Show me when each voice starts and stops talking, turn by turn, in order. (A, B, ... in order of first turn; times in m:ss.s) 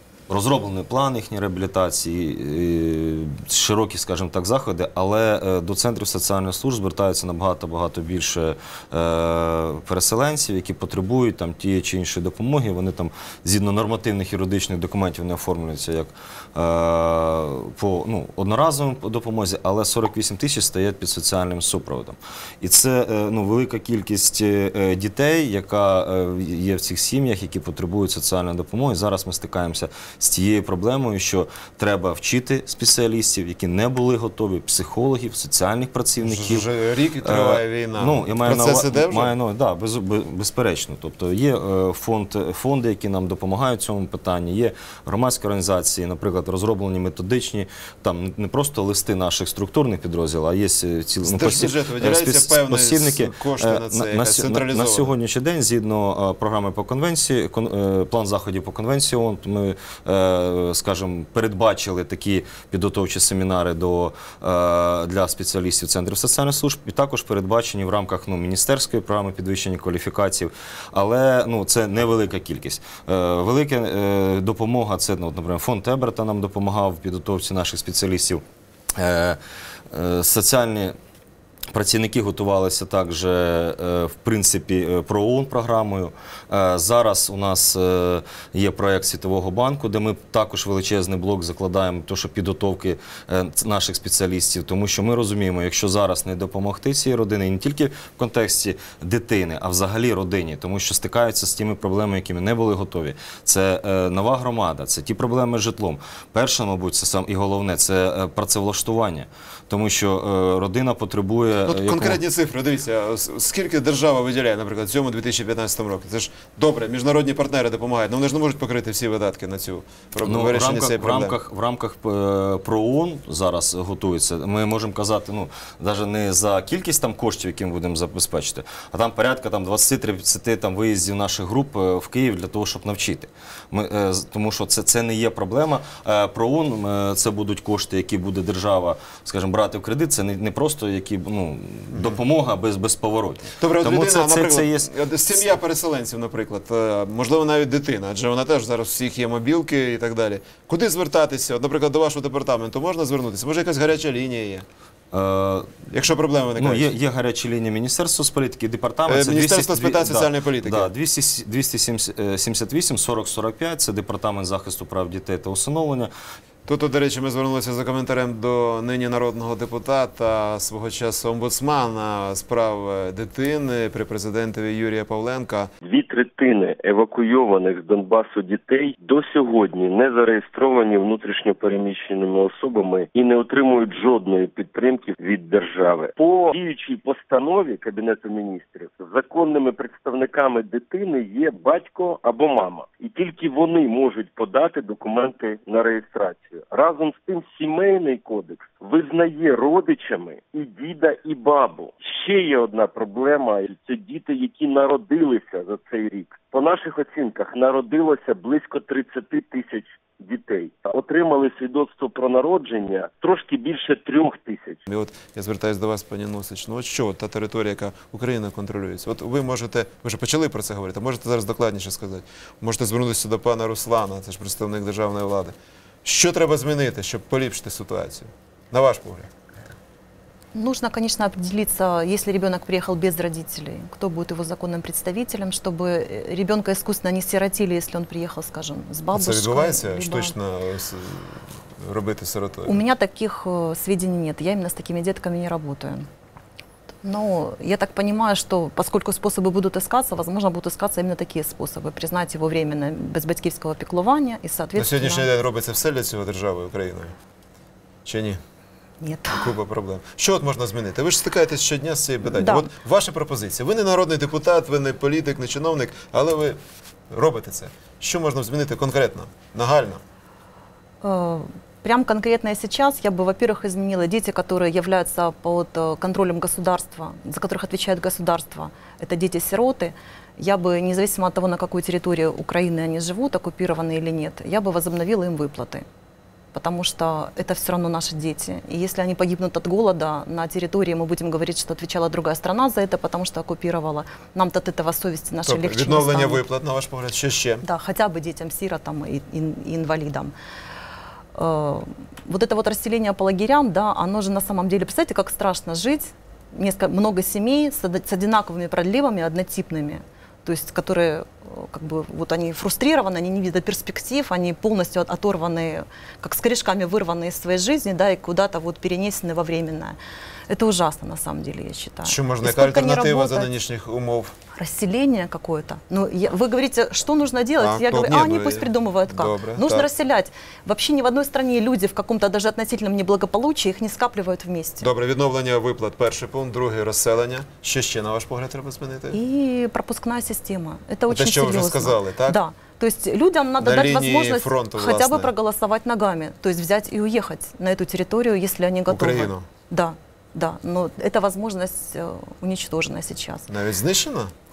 0:00.3-0:36.6 A
0:36.2-0:39.3 B
0:37.2-1:18.4 A
0:51.2-0:55.1 B
1:19.0-1:19.4 A
1:19.9-1:21.0 A
1:21.7-1:52.2 A
1:51.6-2:01.4 B
2:00.2-2:24.9 A
2:21.9-2:22.2 B
2:23.6-2:34.6 B
2:35.1-2:35.7 A
2:35.9-2:36.9 B
2:36.6-2:46.1 A
2:39.1-2:40.9 B
2:46.6-2:55.7 B
2:55.8-3:34.8 C
3:34.9-3:49.3 B
3:50.5-4:00.3 D
3:59.1-4:02.8 B
4:02.6-4:06.1 D
4:07.0-4:15.3 D
4:14.8-4:17.1 B
4:18.0-4:18.4 B
4:19.0-4:19.5 D
4:19.3-4:26.6 B
4:22.3-4:22.7 D
4:27.1-4:30.0 B
4:31.0-4:45.8 D
4:46.5-4:56.4 D
4:55.4-4:57.6 B
4:57.6-5:00.3 D
5:01.3-5:20.0 D
5:20.5-5:23.5 D
5:22.0-5:24.3 B
5:24.5-5:34.9 D
5:27.6-5:29.9 B
5:34.8-5:39.2 B
5:39.1-5:53.5 D
5:41.1-5:42.4 B
5:43.6-5:45.3 B
5:48.9-5:49.4 B
5:53.5-5:54.3 B